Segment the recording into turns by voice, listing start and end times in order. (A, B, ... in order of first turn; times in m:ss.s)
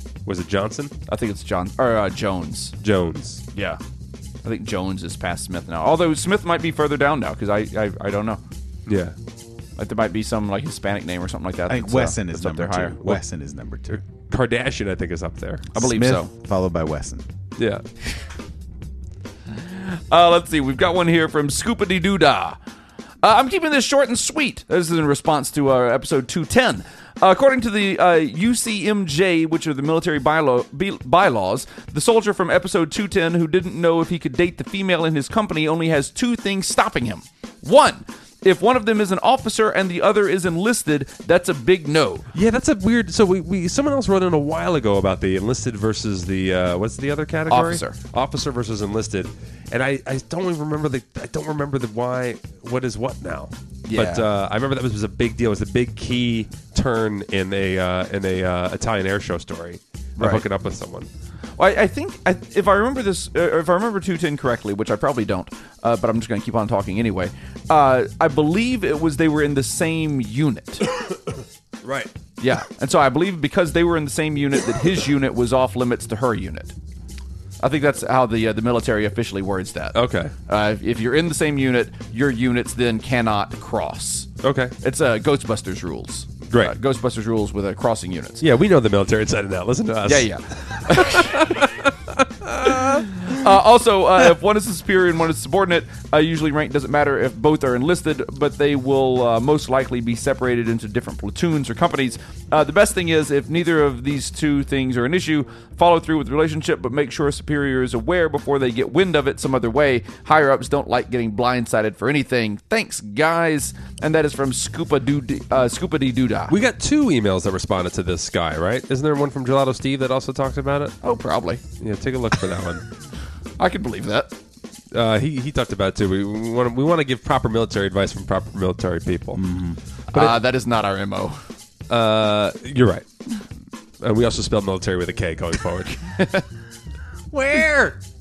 0:00.2-0:00.9 A
0:01.1-0:02.7 B
0:02.8-0:03.4 A
0:03.5-0:03.8 B
0:04.4-0:08.4 B
0:08.8-0:09.1 A
0:09.8-0:13.0 B
0:11.7-0:14.0 C
0:13.9-0:15.7 A
0:15.7-0:16.3 B
0:15.8-0:17.2 C
0:17.6-0:17.8 A
0:19.6-0:22.6 B
0:23.2-0:42.2 B
0:42.3-1:01.1 A
0:47.5-0:48.0 B
0:53.9-0:54.2 B
1:00.2-1:00.4 B
1:01.6-1:10.8 B
1:11.8-1:12.1 A
1:12.4-1:16.7 B
1:17.6-1:24.3 B
1:19.9-1:20.3 A
1:24.4-1:24.7 A
1:24.8-1:28.4 B
1:28.4-1:33.4 A
1:30.0-1:31.6 B
1:32.8-1:56.6 B
1:56.5-2:01.0 A
2:01.0-2:01.6 B
2:01.8-2:02.8 A
2:03.6-2:04.3 B
2:04.9-2:09.4 A
2:09.4-2:09.8 C
2:10.1-2:11.4 B
2:10.1-2:10.4 A
2:11.9-2:13.0 A
2:14.0-2:16.0 A
2:16.1-2:16.4 B
2:17.3-2:18.0 C